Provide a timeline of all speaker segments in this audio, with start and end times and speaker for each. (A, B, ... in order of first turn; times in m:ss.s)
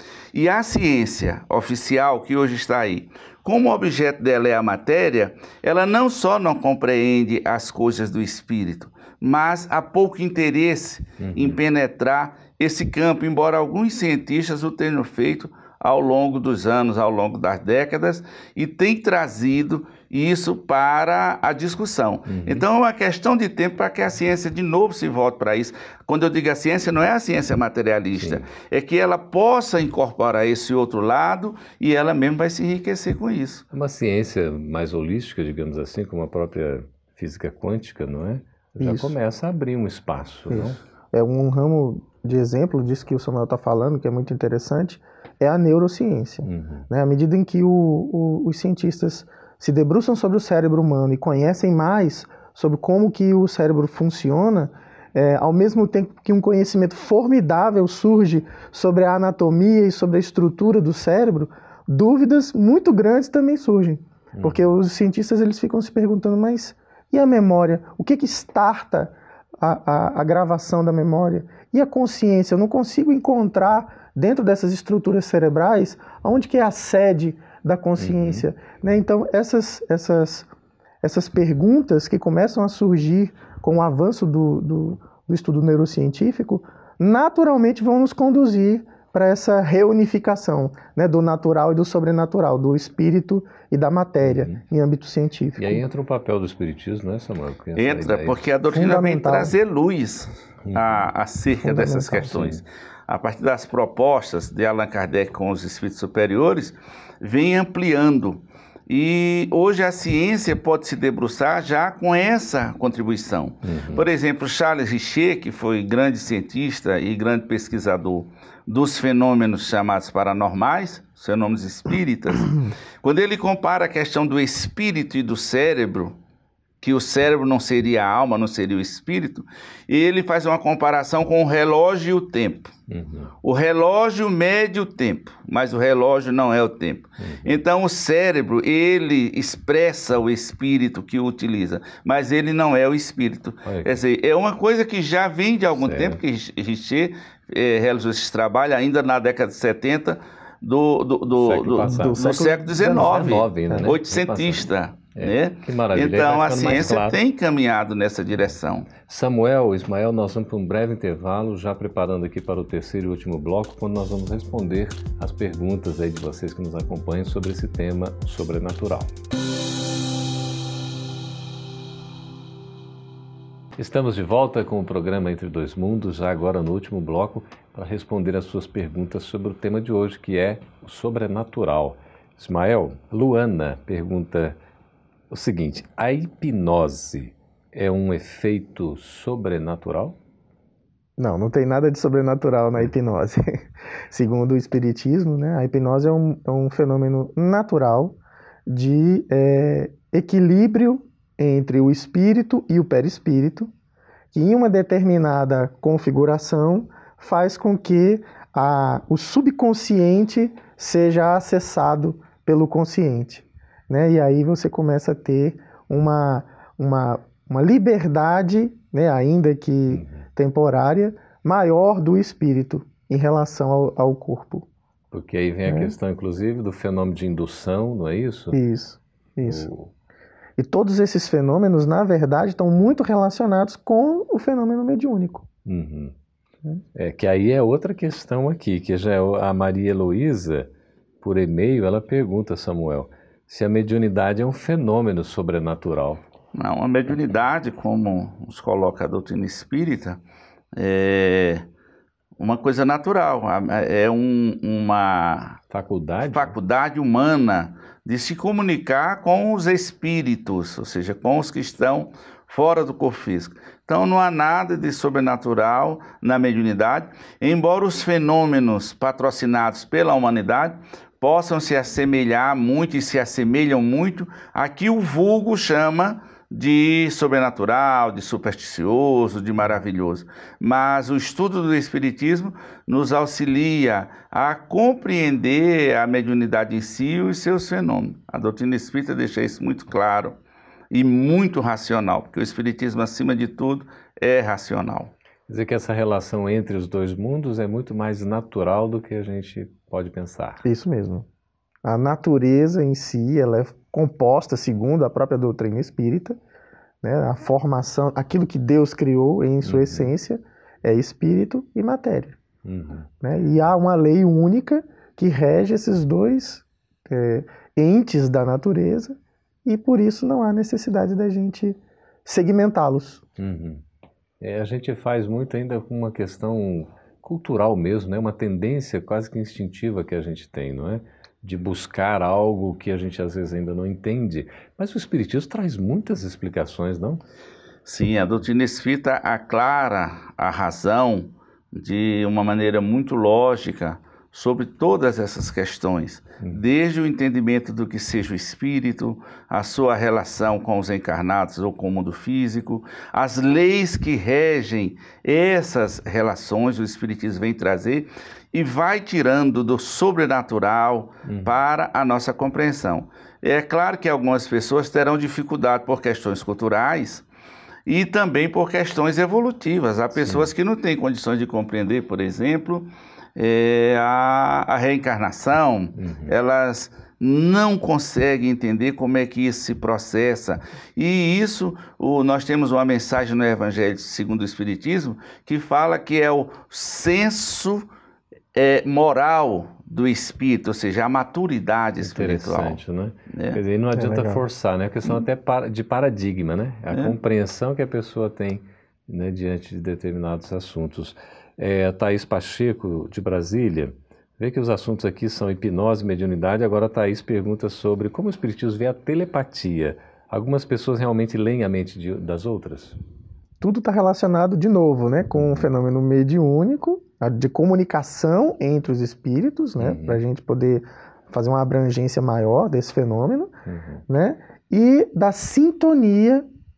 0:00.3-0:33.6 A
0:11.2-0:11.6 B
0:22.3-0:22.7 B
0:28.2-0:28.5 B
0:33.7-0:40.8 B
0:38.8-0:39.2 C
0:40.5-1:20.5 C
0:46.4-0:46.9 B
1:04.3-1:04.7 B
1:18.0-1:18.5 B
1:21.0-1:35.8 C
1:34.2-1:34.6 B
1:35.6-1:38.4 B
1:37.8-2:06.2 A
1:38.7-1:39.6 C
1:40.7-1:41.1 B
1:41.6-1:42.4 C
1:42.3-1:42.6 B
1:53.6-1:54.1 B
2:06.8-2:12.7 A
2:12.9-2:13.3 B
2:13.4-2:38.9 A
2:17.2-2:17.5 B
2:23.6-2:23.9 B
2:25.8-2:26.2 B
2:31.3-2:32.2 B
2:31.8-2:33.9 C
2:32.8-2:37.2 B
2:39.0-2:49.1 B
2:53.8-3:04.6 B
3:05.3-3:10.2 B
3:11.2-3:23.7 C
3:24.3-3:44.7 C
3:39.9-3:40.2 B
3:45.1-3:48.6 B
3:45.7-3:45.9 C
3:48.5-3:49.7 C
3:49.4-3:49.9 B
3:50.6-3:55.5 C
3:55.7-3:56.1 B
3:56.9-4:06.2 B
4:06.6-4:10.2 A
4:10.8-4:11.6 A
4:12.4-4:15.6 A
4:15.7-4:16.6 B
4:16.2-4:50.4 A
4:50.9-4:55.1 A
4:55.5-5:00.6 B
5:00.6-5:01.3 C
5:01.8-5:06.4 C
5:07.0-5:12.4 C
5:09.6-5:10.1 B
5:12.6-5:13.1 B
5:13.2-5:23.2 C
5:23.4-5:23.8 B
5:24.4-5:37.2 B
5:37.9-6:07.3 A
6:01.2-6:01.6 B
6:07.9-6:27.9 A
6:10.2-6:10.5 B
6:16.0-6:16.4 B
6:28.5-6:32.8 A
6:32.0-6:53.0 B
6:33.3-6:33.6 A
6:33.9-6:34.4 C
6:53.6-7:03.5 C
6:55.3-6:55.7 B
6:59.8-7:00.2 B
7:03.7-7:04.0 B
7:04.1-7:06.4 C